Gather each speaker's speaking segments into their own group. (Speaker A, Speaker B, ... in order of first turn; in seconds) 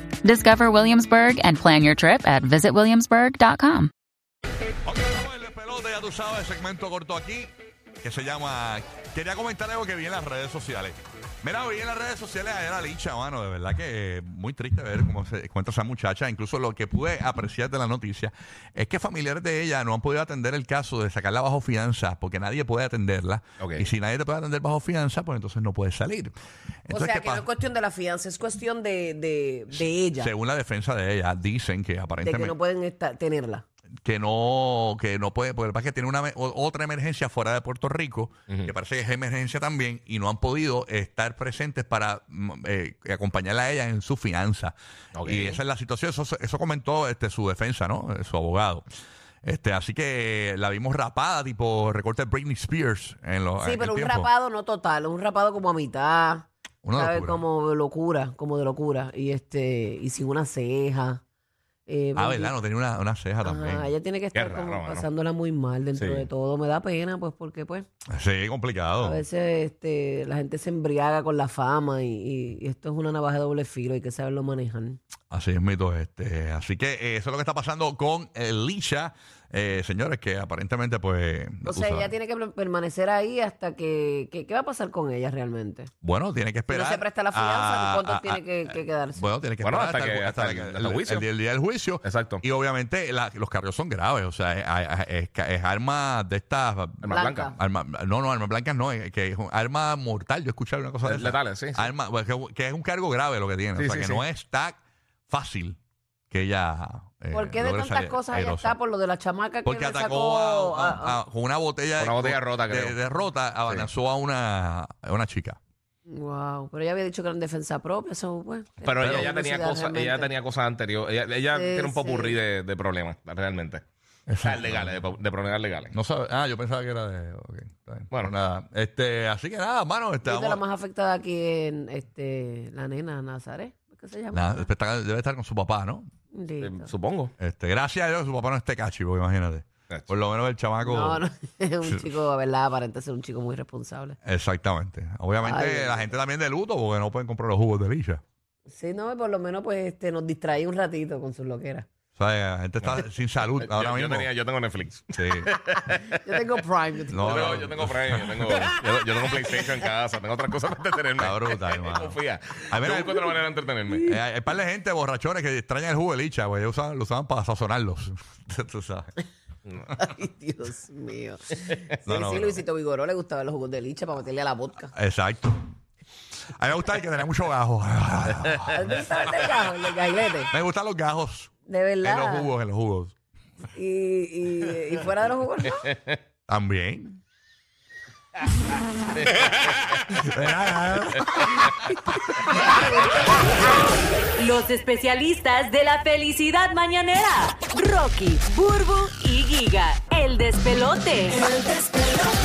Speaker A: 0.2-3.9
Speaker B: 4.8-27.5, 30.1-32.5, 34.0-48.8, 49.4-54.3, 56.8-57.4, 62.1-63.9, 68.1-69.2, 75.3-82.1, 86.0-105.8, 106.3-108.8, 109.7-115.6, 119.0-119.3, 124.3-125.0, 125.9-130.6, 134.3-136.1, 137.4-141.2, 144.2-148.2, 152.2-154.3, 155.2-155.5, 157.1-158.5, 161.2-163.3, 164.0-169.1, 172.1-172.6, 174.9-175.6, 176.6-179.3, 180.5-181.5, 182.0-183.2, 186.5-187.2, 190.1-192.7
Speaker C: 23.6-23.9, 45.1-45.6, 64.3-65.1, 66.0-66.3, 89.6-91.3, 92.0-92.4, 97.0-97.5, 101.0-101.9, 103.8-104.2, 112.0-113.0, 118.8-123.8, 124.4-126.0, 136.6-137.3, 152.8-156.1, 157.2-164.1, 189.2-190.1
Speaker D: 26.9-30.3, 32.2-33.6, 53.6-61.2, 61.9-62.5, 63.4-67.9, 69.0-75.0, 81.7-85.9, 86.7-89.3, 97.1-97.6, 107.3-111.2, 116.1-120.3, 121.5-122.4, 130.2-134.7, 136.3-136.9, 140.8-144.2, 145.4-146.1, 148.7-151.9, 155.9-157.7, 158.5-159.0, 169.9-174.9, 178.7-180.5, 181.7-182.5, 183.7-186.0
Speaker E: 194.4-201.6